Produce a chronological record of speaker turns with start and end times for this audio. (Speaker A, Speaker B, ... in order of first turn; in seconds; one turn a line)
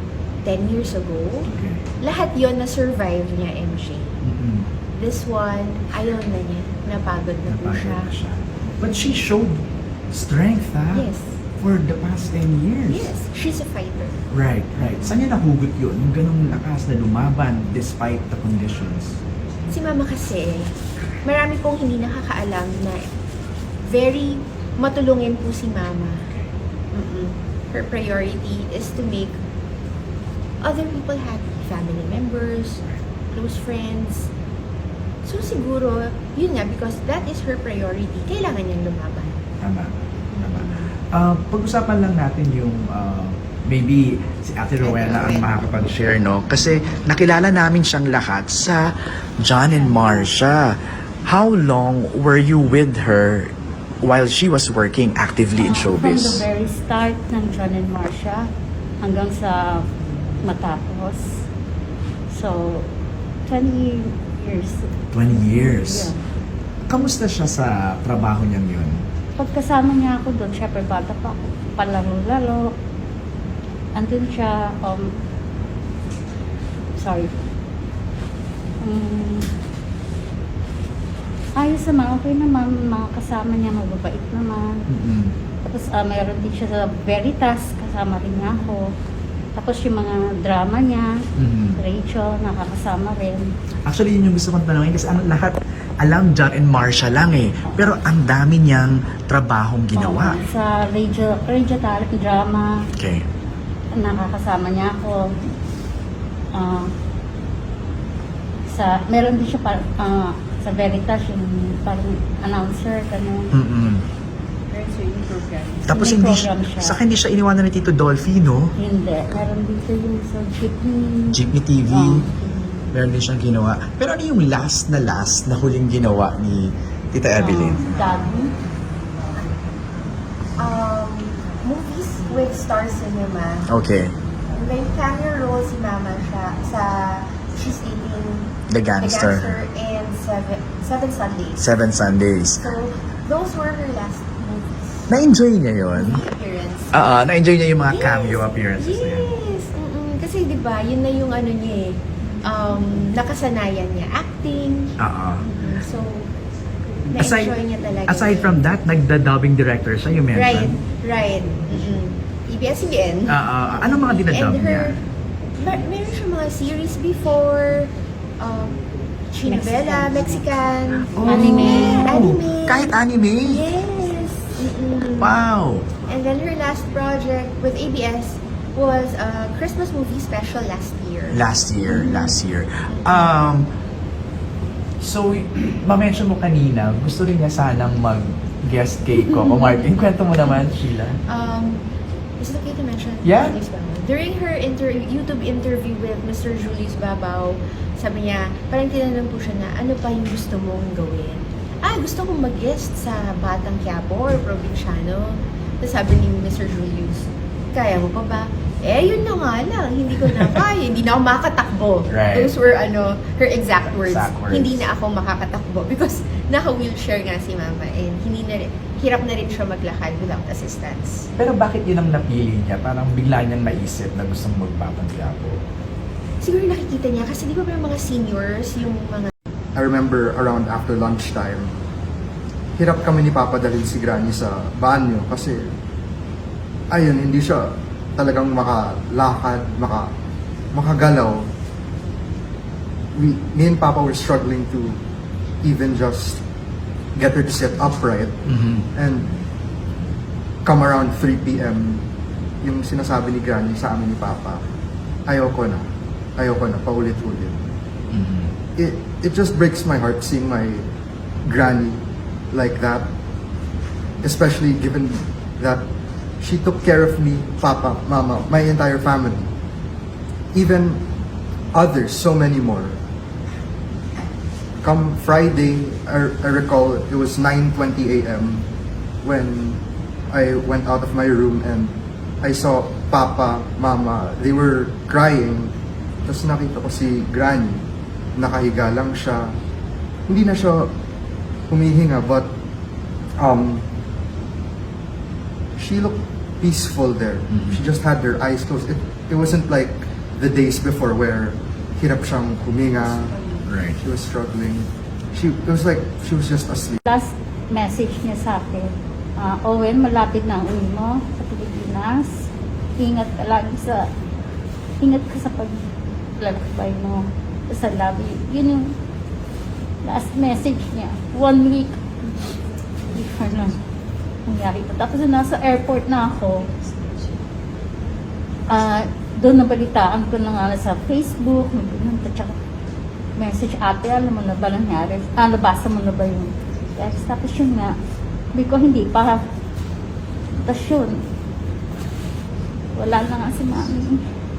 Speaker A: 0.4-1.5
Speaker B: 1.5-1.9
Speaker A: 2.0-4.2
Speaker B: 4.2-4.7
Speaker A: 5.0-8.1
Speaker B: 7.5-11.1
Speaker A: 10.9-11.4
Speaker B: 11.6-13.1
Speaker A: 12.9-14.2
Speaker B: 14.3-19.2
Speaker A: 19.7-23.0
Speaker A: 23.8-26.2
Speaker A: 26.9-29.4
Speaker A: 30.6-34.3
Speaker A: 35.2-39.4
Speaker B: 39.6-56.4
Speaker A: 40.3-40.9
Speaker A: 44.8-45.5
Speaker C: 55.6-58.5
Speaker C: 59.0-59.8
Speaker C: 60.4-61.2
Speaker C: 62.3-62.9
Speaker C: 63.5-66.2
Speaker B: 65.1-66.1
Speaker B: 66.9-69.0
Speaker C: 69.4-72.7
Speaker C: 74.0-75.1
Speaker C: 77.0-77.3
Speaker C: 78.8-79.4
Speaker C: 81.6-84.8
Speaker B: 84.9-85.3
Speaker C: 85.6-88.9
Speaker C: 89.5-91.1
Speaker B: 91.4-91.8
Speaker C: 91.8-93.5
Speaker B: 93.8-100.4
Speaker C: 97.6-98.0
Speaker C: 99.9-102.8
Speaker B: 103.0-103.2
Speaker C: 103.9-105.2
Speaker C: 106.6-106.9
Speaker C: 108.7-113.5
Speaker B: 113.5-114.0
Speaker A: 114.7-115.8
Speaker B: 115.9-118.7
Speaker C: 115.9-117.0
Speaker C: 118.8-122.3
Speaker B: 121.3-122.3
Speaker B: 122.9-127.9
Speaker C: 127.3-128.6
Speaker A: 130.6-133.7
Speaker B: 133.7-134.1
Speaker A: 134.5-141.6
Speaker B: 138.7-139.5
Speaker B: 141.6-142.7
Speaker A: 142.6-144.9
Speaker B: 145.1-146.2
Speaker A: 145.9-147.1
Speaker B: 146.9-149.3
Speaker A: 147.8-156.3
Speaker B: 155.0-155.4
Speaker B: 157.1-160.7
Speaker A: 157.1-158.6
Speaker A: 160.3-163.4
Speaker B: 163.3-165.0
Speaker A: 164.2-165.0
Speaker A: 165.6-168.8
Speaker A: 169.3-175.4
Speaker C: 169.4-170.4
Speaker B: 171.1-173.6
Speaker C: 171.2-172.1
Speaker B: 175.2-175.9
Speaker A: 176.0-182.4
Speaker B: 181.3-183.7
Speaker A: 182.9-183.2
Speaker B: 185.0-191.2
Speaker A: 191.3-191.8
Speaker A: 192.4-221.3
Speaker B: 193.2-193.6
Speaker B: 212.1-212.5
Speaker B: 213.8-214.8
Speaker B: 221.4-225.6
Speaker A: 226.4-229.3
Speaker D: 229.7-231.7
Speaker D: 232.8-235.7
Speaker D: 236.9-240.1
Speaker D: 240.7-241.4
Speaker D: 243.1-245.0
Speaker D: 245.6-246.4
Speaker D: 247.2-249.3
Speaker B: 248.5-248.9
Speaker D: 250.6-252.0
Speaker D: 252.6-254.6
Speaker D: 255.3-257.6
Speaker B: 258.1-258.5
Speaker D: 258.8-260.9
Speaker D: 261.4-263.1
Speaker D: 264.2-265.9
Speaker D: 266.4-269.5
Speaker D: 270.5-271.1
Speaker D: 271.7-273.0
Speaker D: 274.8-278.7
Speaker D: 279.2-285.7
Speaker D: 286.2-287.8
Speaker D: 288.4-289.6
Speaker D: 290.3-290.9
Speaker D: 291.7-292.5
Speaker D: 293.4-293.9
Speaker D: 295.8-303.3
Speaker B: 297.5-297.8
Speaker B: 303.7-304.0
Speaker D: 304.0-307.0
Speaker C: 307.1-312.5
Speaker C: 313.0-314.1
Speaker C: 315.0-315.8
Speaker C: 316.4-318.9
Speaker C: 320.0-322.5
Speaker C: 323.1-323.8
Speaker C: 324.4-326.7
Speaker C: 328.7-332.5
Speaker C: 333.4-337.9
Speaker C: 338.5-339.4
Speaker C: 340.6-341.2
Speaker C: 342.9-344.2